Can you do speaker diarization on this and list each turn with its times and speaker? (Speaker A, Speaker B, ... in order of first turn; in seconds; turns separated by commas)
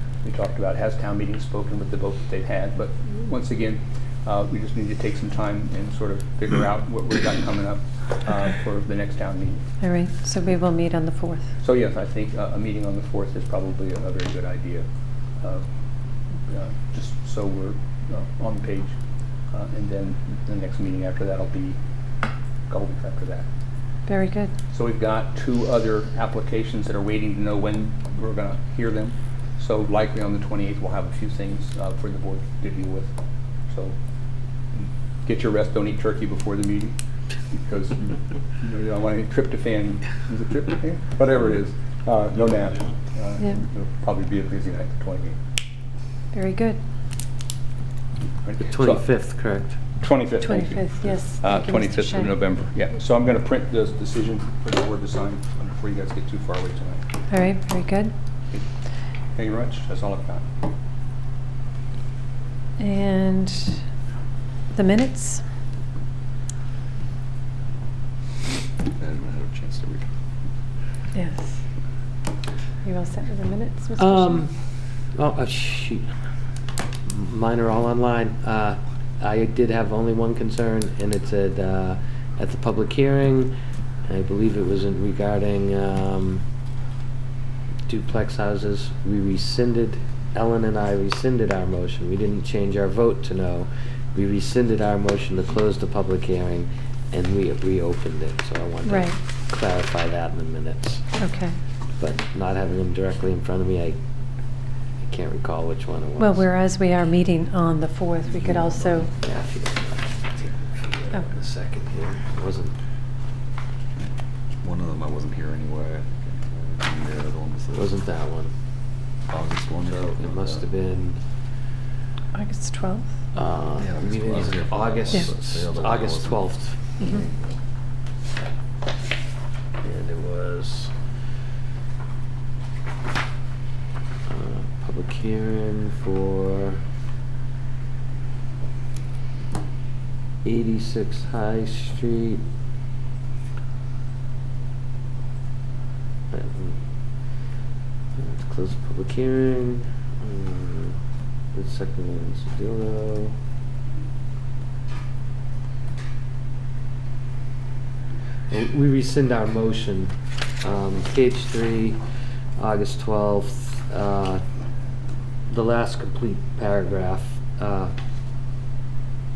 Speaker A: 0.2-9.6, Speaker B: 9.8-11.5, Speaker A: 11.6-14.8, Speaker A: 15.4-15.6, Speaker A: 16.5-18.9, Speaker A: 19.5-21.8, Speaker A: 22.7-23.4, Speaker B: 24.1-24.5, Speaker A: 24.7-33.1, Speaker A: 33.7-34.0, Speaker A: 35.2-37.0, Speaker A: 37.5-45.4, Speaker B: 46.3-46.8, Speaker A: 48.4-49.0, Speaker C: 48.7-49.8, Speaker A: 50.0-57.0, Speaker B: 50.4-52.3, Speaker B: 57.3-58.1, Speaker A: 59.4-60.5, Speaker B: 62.8-63.8, Speaker B: 64.7-65.4, Speaker D: 69.0-70.0, Speaker B: 71.1-71.6, Speaker B: 72.8-74.4, Speaker C: 74.0-74.5, Speaker C: 75.1-76.0, Speaker C: 77.0-83.5, Speaker C: 84.0-86.4, Speaker C: 87.9-101.2, Speaker B: 98.8-99.1, Speaker B: 101.2-101.5, Speaker C: 102.0-104.0, Speaker C: 105.0-106.5, Speaker B: 106.2-109.1, Speaker C: 108.5-112.8, Speaker D: 114.6-117.9, Speaker C: 117.7-118.5, Speaker D: 119.3-120.6, Speaker C: 119.9-121.2, Speaker B: 122.3-123.1, Speaker C: 123.3-127.2, Speaker D: 123.8-126.5, Speaker C: 129.8-130.9, Speaker C: 134.3-136.8, Speaker C: 140.4-142.4, Speaker C: 146.3-146.8, Speaker C: 148.1-151.0, Speaker C: 151.5-153.4, Speaker C: 158.5-162.0, Speaker C: 162.6-164.4, Speaker C: 165.5-167.9